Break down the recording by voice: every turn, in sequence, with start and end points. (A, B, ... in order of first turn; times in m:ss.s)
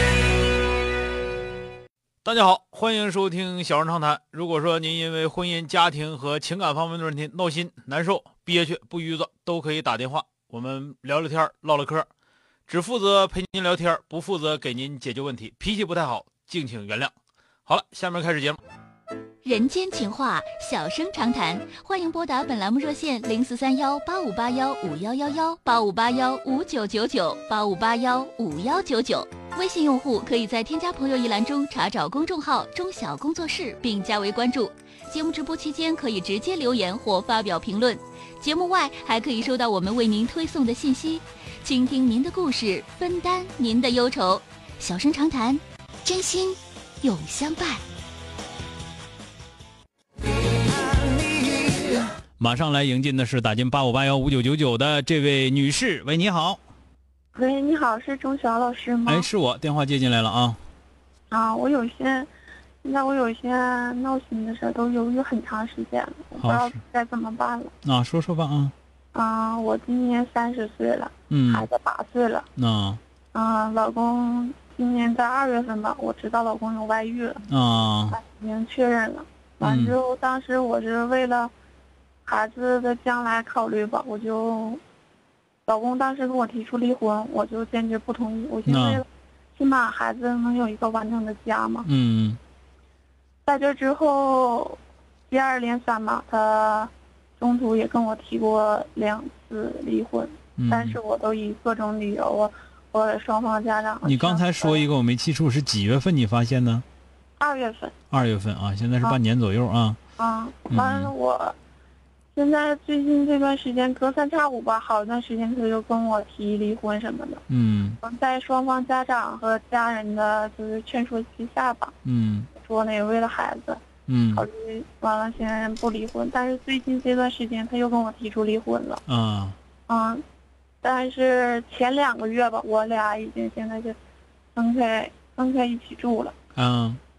0:02.2-0:12.1 A
0:12.7-0:17.1 A
0:17.6-0:18.6 A
0:19.4-0:47.8 B
0:52.4-0:56.6 A
0:57.3-0:59.3 C
0:59.0-1:00.6 A
1:01.3-1:02.3 C
1:02.8-1:07.7 C
1:06.4-1:06.8 A
1:07.8-1:08.7 A
1:09.1-1:12.4 C
1:11.3-1:11.7 A
1:12.6-1:13.0 A
1:13.3-1:17.4 C
1:17.5-1:18.2 A
1:18.1-1:21.5 C
1:19.6-1:19.9 A
1:22.2-1:24.8 C
1:25.6-1:31.9 C
1:28.7-1:29.0 A
1:31.8-1:32.4 A
1:33.4-1:34.8 C
1:35.3-1:44.8 C
1:40.6-1:41.0 A
1:44.0-1:46.8 A
1:47.4-1:47.9 C
1:48.1-1:50.0 A
1:50.2-1:51.5 C
1:50.7-1:51.1 A
1:52.3-1:57.4 C
1:57.5-1:58.0 A
1:58.0-2:01.9 C
2:02.0-2:02.5 A
2:02.5-2:03.8 C
2:04.1-2:04.4 A
2:04.3-2:09.0 C
2:09.1-2:09.6 A
2:09.9-2:10.2 C
2:10.8-2:14.0 C
2:14.5-2:16.3 C
2:16.6-2:17.0 A